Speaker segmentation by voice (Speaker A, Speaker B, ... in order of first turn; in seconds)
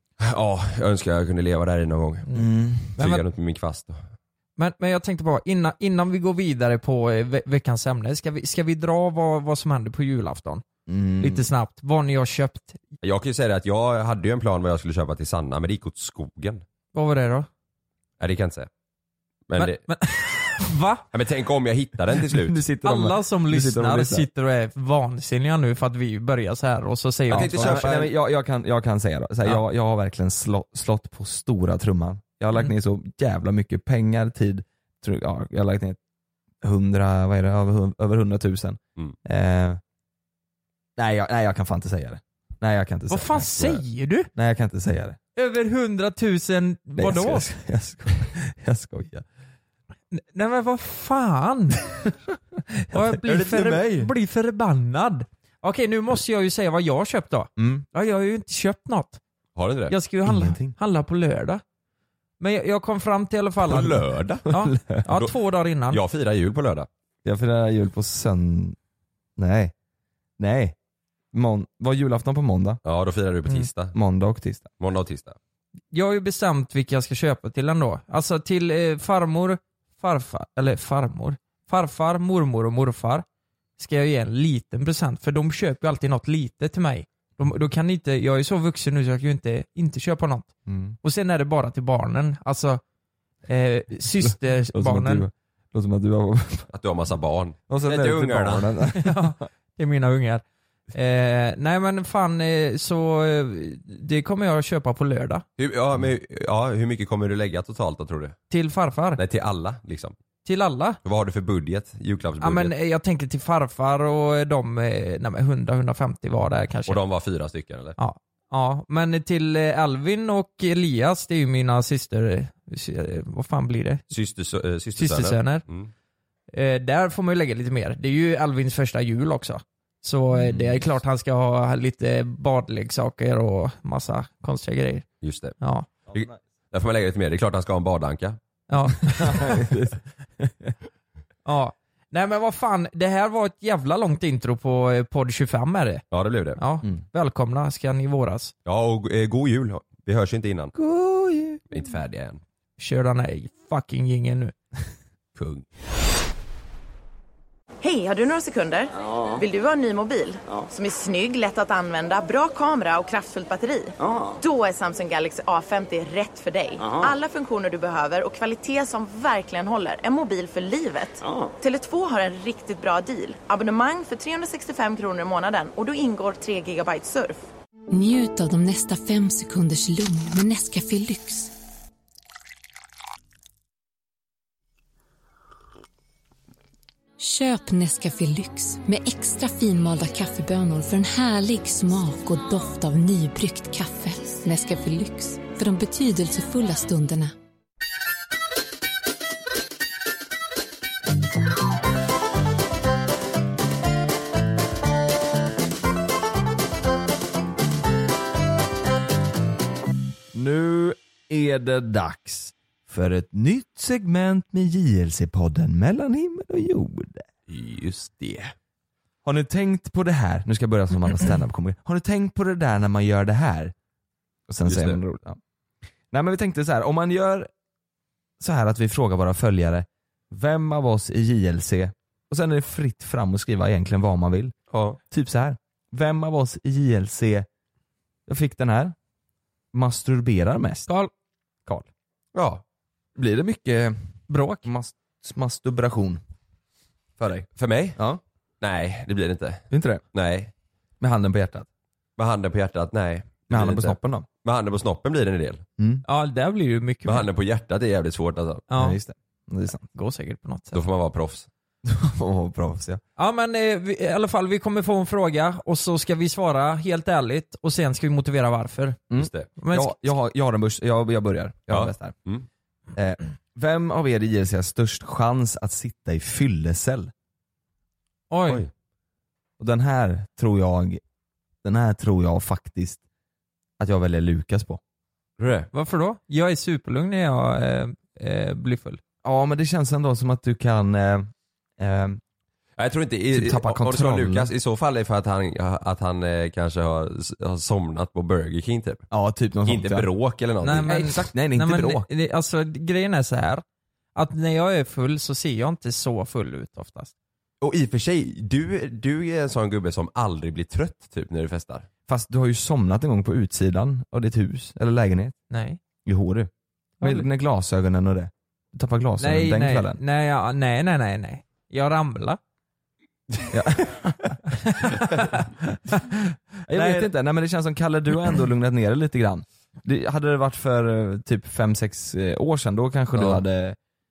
Speaker A: 0.2-2.2, 3.0-4.0, 13.0-16.6, 18.2-18.7, 19.5-19.8, 21.1-22.6, 27.3-28.1, 53.2-54.1, 59.6-59.9, 63.7-64.5, 65.9-66.9, 72.8-74.0, 74.8-75.4, 96.7-98.7, 105.6-108.4, 109.2-110.2, 111.0-112.7, 116.9-118.0, 124.1-125.9, 135.2-135.6, 136.1-138.4, 146.1-146.6, 148.7-150.7, 151.7-152.4, 155.4-155.7, 217.5-218.5, 224.7-225.0, 234.7-235.0, 242.3-242.6, 247.2-248.0, 248.6-250.5, 252.2-255.6, 257.1-258.6, 260.7-261.5, 269.2-269.5, 271.7-272.5, 285.4-285.7, 292.8-299.1, 299.7-300.9, 307.6-311.9, 333.1-333.4
Speaker B: 2.3-3.3, 10.9-11.4, 22.2-24.3, 27.3-36.0, 36.6-39.8, 41.0-43.5, 44.4-45.2, 47.0-49.2, 52.9-53.2, 57.6-57.9, 60.2-60.7, 64.6-65.0, 67.2-68.8, 69.4-69.7, 70.4-70.8, 71.3-72.8, 73.8-74.7, 90.7-91.0, 94.2-96.7, 97.7-99.5, 139.2-140.8, 150.8-151.6, 210.3-217.3, 219.2-223.7, 224.5-225.4, 226.1-227.5, 228.4-237.5, 238.3-238.9, 239.7-240.9, 243.2-246.2, 248.0-248.2, 249.7-250.1, 251.0-251.7, 253.5-254.3, 255.8-256.1, 258.7-259.9, 261.9-263.0, 269.1-272.2, 272.9-277.1, 279.6-281.0, 281.6-283.0, 283.8-284.8, 289.2-292.2, 293.3-294.5, 299.1-300.1, 300.8-302.1, 312.1-315.4, 316.1-316.5, 317.0-320.0, 323.5-324.4, 326.7-333.8
Speaker C: 4.6-10.6, 11.2-12.8, 16.9-17.5, 19.6-21.0, 22.9-27.9, 43.1-44.3, 45.4-47.5, 50.1-51.8, 52.9-59.2, 59.9-61.6, 62.4-66.0, 75.9-83.2, 83.8-90.5, 91.0-92.8, 93.5-95.3, 99.0-105.5, 108.5-109.2, 110.5-111.0, 112.4-117.0, 118.0-124.0, 125.0-125.7, 126.5-135.1, 135.6-135.9, 138.7-139.6, 141.4-146.1, 146.6-148.5, 152.8-154.6, 244.3-244.7, 256.1-257.3, 258.7-259.0, 259.9-260.8, 263.2-269.0, 269.6-270.1, 278.3-278.6, 285.7-289.0, 300.6-303.6, 304.2-307.1, 315.5-315.8, 319.2-322.4, 324.5-327.1
Speaker D: 157.8-177.5
Speaker E: 177.9-181.5, 187.2-197.3